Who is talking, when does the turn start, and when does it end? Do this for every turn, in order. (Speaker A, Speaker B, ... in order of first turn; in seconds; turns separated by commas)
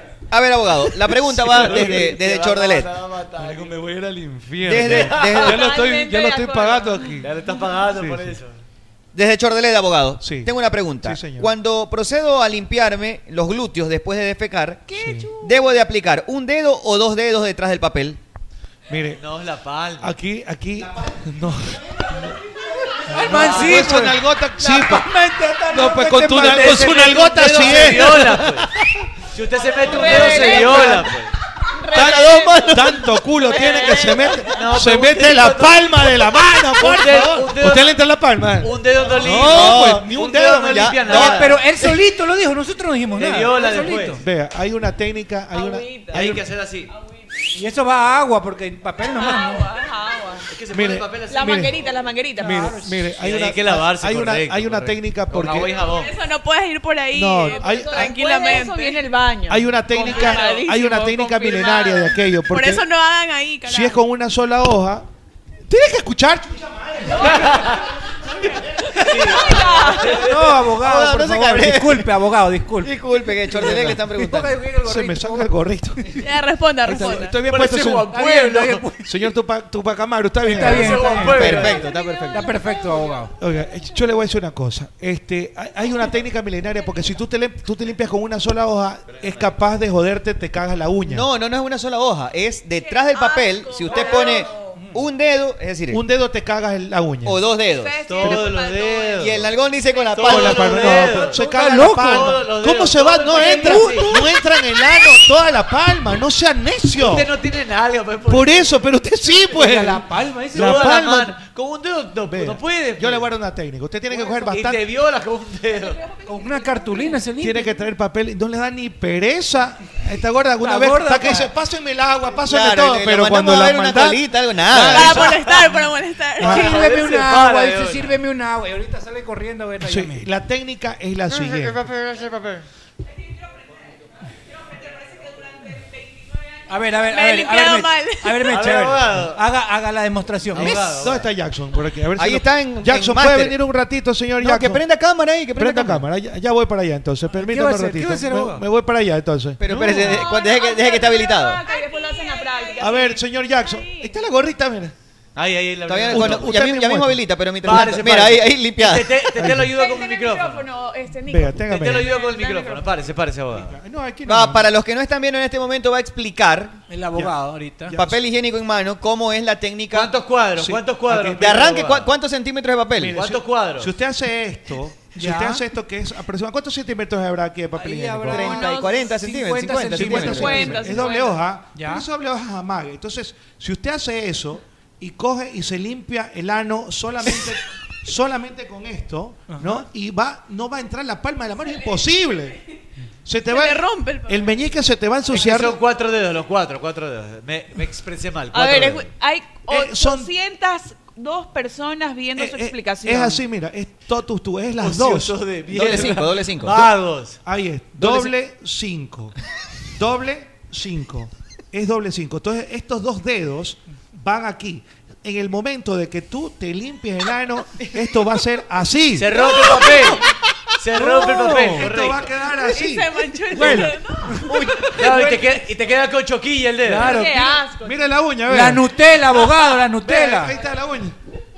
Speaker A: 0.3-3.0, Speaker B: 1.2-3.7, Speaker C: 1.4-2.1, Speaker C: 3.4-7.3, Speaker A: 4.7-5.7, Speaker B: 4.8-5.6, Speaker D: 5.3-7.6, Speaker B: 7.2-8.6, Speaker C: 7.9-8.4, Speaker A: 9.1-18.2, Speaker C: 10.2-11.5, Speaker D: 14.9-15.7, Speaker C: 14.9-15.3, Speaker C: 18.9-19.2, Speaker B: 19.1-20.1, Speaker C: 20.0-22.4, Speaker E: 23.1-28.4, Speaker C: 23.1-25.1, Speaker B: 23.3-23.8, Speaker C: 25.7-28.5, Speaker B: 26.4-28.7, Speaker B: 29.3-31.3, Speaker D: 29.6-31.1, Speaker C: 30.0-31.0, Speaker D: 31.7-34.6, Speaker C: 31.9-41.2, Speaker A: 32.0-32.5, Speaker B: 34.5-36.2, Speaker B: 36.8-38.0, Speaker B: 38.6-41.6, Speaker A: 39.2-41.6, Speaker E: 41.1-44.2, Speaker B: 43.2-44.2, Speaker C: 44.2-46.4, Speaker D: 45.5-46.4, Speaker B: 46.1-46.9, Speaker D: 46.9-47.6, Speaker E: 47.5-49.7, Speaker D: 49.0-50.5, Speaker B: 50.5-51.9, Speaker C: 50.7-51.7, Speaker D: 51.3-52.8, Speaker C: 52.4-55.7, Speaker E: 52.4-53.0, Speaker B: 53.2-56.1, Speaker D: 55.7-56.1, Speaker F: 55.8-59.1, Speaker C: 57.1-58.2, Speaker D: 57.4-62.0, Speaker C: 59.5-62.9, Speaker F: 60.3-64.0, Speaker C: 63.6-65.0, Speaker C: 65.7-67.8, Speaker B: 67.3-67.8, Speaker C: 68.4-68.9, Speaker B: 69.0-70.4, Speaker D: 69.1-70.2, Speaker E: 70.1-73.0, Speaker A: 70.7-72.1, Speaker A: 72.8-74.6, Speaker E: 73.5-75.5, Speaker C: 73.6-74.0, Speaker C: 74.8-76.1, Speaker F: 76.2-77.4, Speaker C: 76.8-78.1, Speaker E: 76.9-77.2, Speaker B: 77.4-78.8, Speaker E: 78.1-79.1, Speaker C: 79.0-81.2, Speaker E: 80.4-81.7, Speaker B: 80.5-81.9, Speaker D: 81.1-83.3, Speaker A: 81.2-82.5, Speaker E: 82.3-83.3, Speaker C: 83.4-91.3, Speaker B: 89.1-89.5, Speaker A: 91.0-96.0, Speaker D: 92.8-94.8, Speaker E: 94.7-95.0, Speaker C: 95.9-97.4, Speaker A: 97.2-98.0, Speaker D: 97.7-101.2, Speaker B: 98.1-99.5, Speaker C: 98.2-98.5, Speaker A: 99.2-101.1, Speaker B: 100.1-104.1, Speaker C: 100.2-107.3, Speaker E: 101.2-102.4, Speaker E: 103.3-104.2, Speaker B: 107.0-108.8, Speaker C: 108.3-111.3, Speaker E: 109.5-111.0, Speaker B: 110.5-113.3, Speaker C: 112.3-114.8, Speaker B: 114.1-116.0, Speaker D: 115.7-117.2, Speaker E: 116.2-117.7, Speaker C: 117.4-124.2, Speaker E: 120.6-121.5, Speaker A: 122.5-125.4, Speaker C: 124.7-125.5, Speaker F: 124.9-126.6, Speaker B: 125.0-125.7, Speaker C: 126.4-126.8, Speaker B: 126.4-128.2, Speaker E: 126.4-130.2, Speaker C: 129.8-131.9, Speaker B: 131.3-132.7, Speaker D: 134.8-135.8, Speaker E: 136.7-141.1, Speaker F: 137.0-138.5, Speaker B: 138.4-139.4, Speaker B: 140.5-141.3, Speaker C: 140.6-144.8, Speaker A: 142.2-143.6, Speaker A: 144.4-146.1, Speaker C: 145.5-149.6, Speaker E: 147.3-148.6, Speaker A: 149.6-151.6, Speaker B: 149.7-150.2, Speaker D: 149.7-154.2, Speaker F: 151.7-152.7, Speaker C: 152.8-154.9, Speaker B: 155.3-156.6, Speaker A: 155.8-159.2, Speaker C: 156.1-157.9, Speaker B: 157.6-160.7, Speaker C: 159.3-159.7, Speaker D: 159.6-163.1, Speaker C: 161.3-162.1, Speaker B: 161.6-163.8, Speaker C: 163.5-164.7, Speaker A: 164.2-166.8, Speaker E: 166.9-167.9, Speaker C: 167.9-168.2, Speaker A: 167.9-170.1, Speaker B: 169.9-172.1, Speaker C: 170.6-171.6, Speaker A: 171.3-173.2, Speaker C: 173.0-178.6, Speaker B: 173.1-173.9, Speaker E: 175.1-175.6, Speaker E: 177.7-181.1, Speaker A: 178.3-180.8, Speaker D: 178.4-179.1, Speaker C: 179.9-192.6, Speaker D: 180.1-181.5, Speaker E: 181.7-182.1, Speaker E: 189.5-189.8, Speaker C: 193.2-195.8, Speaker F: 193.5-194.6, Speaker B: 195.3-199.1, Speaker D: 198.5-203.4, Speaker C: 199.7-200.3, Speaker C: 202.3-205.4, Speaker B: 204.8-207.4, Speaker A: 205.7-206.9, Speaker C: 206.6-206.9, Speaker C: 207.4-209.3, Speaker B: 208.0-208.3, Speaker C: 209.9-219.6, Speaker B: 219.2-220.2, Speaker B: 220.8-222.3, Speaker E: 221.0-221.8, Speaker C: 221.0-225.6, Speaker F: 222.6-224.4, Speaker E: 223.6-224.9, Speaker B: 224.9-227.3, Speaker E: 226.8-227.6, Speaker D: 227.0-228.2, Speaker C: 227.8-228.8, Speaker E: 228.4-230.5, Speaker C: 230.0-231.2, Speaker B: 230.1-230.4